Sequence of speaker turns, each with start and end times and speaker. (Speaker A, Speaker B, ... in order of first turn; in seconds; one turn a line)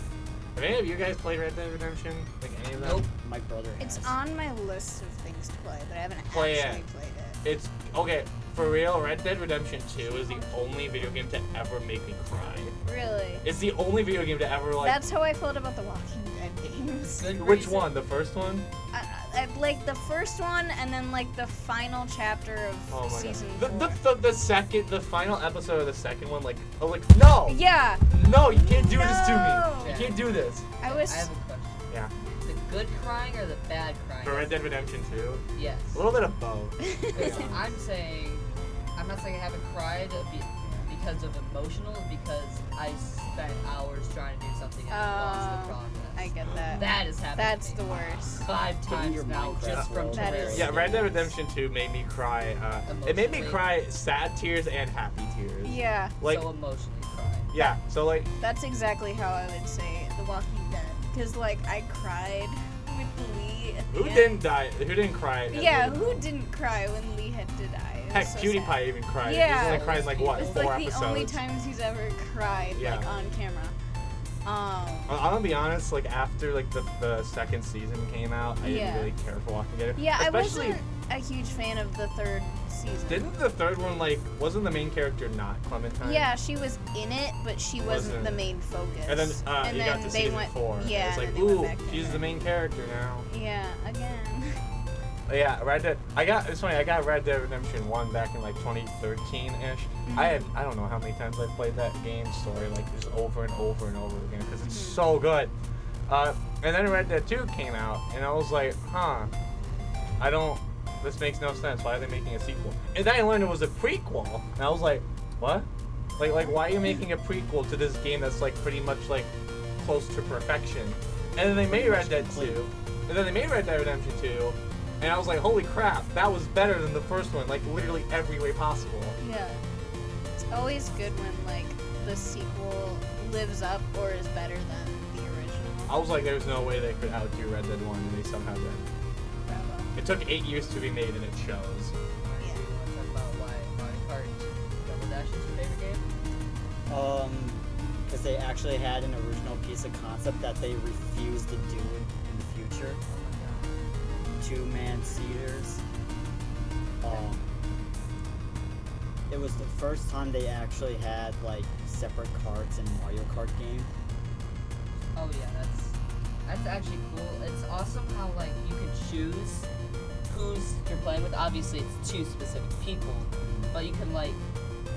Speaker A: 0.5-3.0
Speaker B: 2.8-3.1
Speaker C: 3.2-4.2
Speaker D: 3.8-7.4
Speaker A: 6.3-6.8
Speaker A: 7.4-12.8
Speaker D: 10.1-10.5
Speaker B: 12.3-12.6
Speaker D: 12.8-13.4
Speaker A: 13.4-15.0
Speaker D: 14.8-17.4
Speaker B: 17.1-17.9
Speaker A: 17.3-18.7
Speaker D: 18.9-24.0
Speaker A: 22.9-27.6
Speaker D: 27.5-30.0
Speaker A: 28.1-30.7
Speaker B: 29.8-30.2
Speaker D: 30.8-31.3
Speaker B: 30.8-34.6
Speaker D: 32.2-32.4
Speaker A: 34.2-37.6
Speaker B: 35.5-36.0
Speaker D: 36.8-37.5
Speaker B: 37.1-38.4
Speaker B: 39.0-51.1
Speaker D: 44.9-48.5
Speaker C: 48.9-51.3
Speaker A: 49.6-49.9
Speaker D: 50.1-50.7
Speaker A: 50.4-56.5
Speaker B: 52.9-53.7
Speaker D: 55.6-56.1
Speaker B: 56.2-57.5
Speaker A: 57.5-58.3
Speaker D: 58.4-64.3
Speaker A: 63.9-66.2
Speaker D: 65.5-73.7
Speaker A: 68.1-71.4
Speaker B: 69.5-70.7
Speaker A: 72.7-73.1
Speaker D: 74.4-75.1
Speaker A: 75.1-80.8
Speaker D: 78.6-79.1
Speaker D: 80.0-83.3
Speaker A: 83.1-86.3
Speaker D: 86.0-92.3
Speaker A: 87.8-88.4
Speaker A: 89.1-93.3
Speaker D: 93.3-94.6
Speaker A: 95.3-105.5
Speaker D: 100.1-100.5
Speaker D: 104.6-105.0
Speaker A: 106.1-109.3
Speaker A: 110.2-129.2
Speaker C: 121.6-122.6
Speaker D: 129.2-129.6
Speaker D: 130.5-136.2
Speaker A: 135.9-138.8
Speaker D: 139.4-139.9
Speaker A: 139.9-141.9
Speaker B: 142.2-146.1
Speaker C: 146.9-153.0
Speaker B: 153.1-153.9
Speaker C: 154.4-155.8
Speaker C: 157.0-157.4
Speaker C: 159.3-163.9
Speaker B: 165.1-169.7
Speaker B: 170.3-174.4
Speaker C: 173.4-173.7